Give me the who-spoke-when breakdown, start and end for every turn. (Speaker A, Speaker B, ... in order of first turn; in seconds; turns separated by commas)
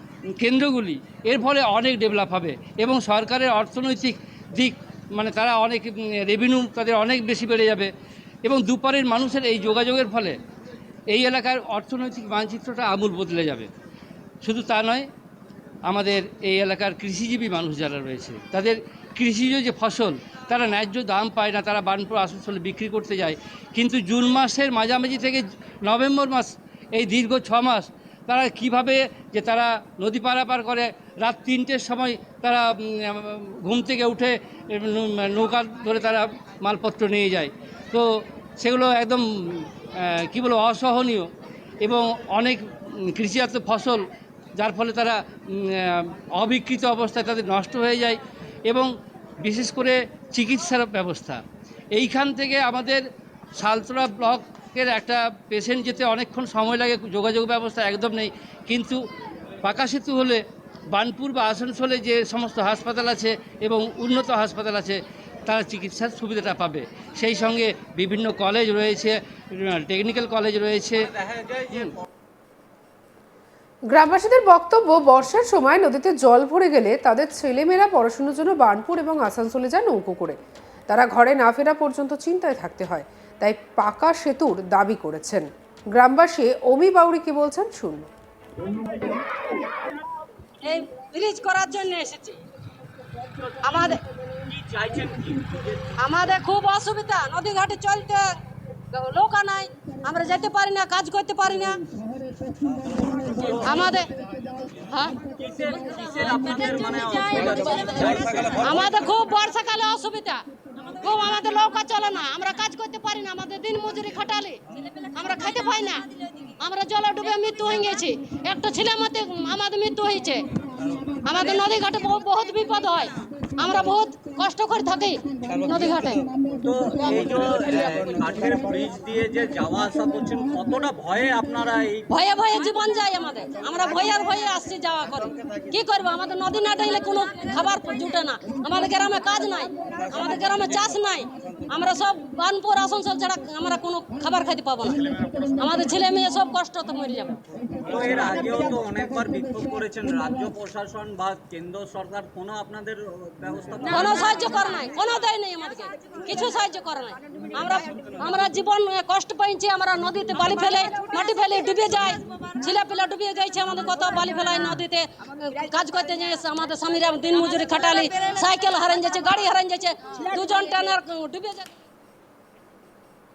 Speaker A: 0.3-7.9, Speaker A: 8.4-10.4, Speaker A: 11.1-13.7, Speaker A: 14.4-15.1, Speaker A: 15.8-41.3, Speaker A: 41.8-44.0, Speaker A: 44.5-48.9, Speaker A: 49.4-53.0, Speaker A: 53.6-59.0, Speaker A: 59.6-60.4, Speaker A: 60.9-72.0, Speaker B: 73.9-80.4, Speaker B: 80.9-88.1, Speaker C: 90.6-92.4, Speaker C: 93.6-94.0, Speaker D: 94.5-95.9, Speaker C: 96.0-98.4, Speaker C: 98.9-101.9, Speaker D: 103.0-103.8, Speaker C: 103.7-104.1, Speaker C: 104.9-105.2, Speaker D: 105.3-108.9, Speaker C: 108.6-120.5, Speaker C: 121.2-126.2, Speaker D: 126.5-132.1, Speaker C: 132.1-147.4, Speaker D: 147.8-154.5, Speaker C: 153.9-171.7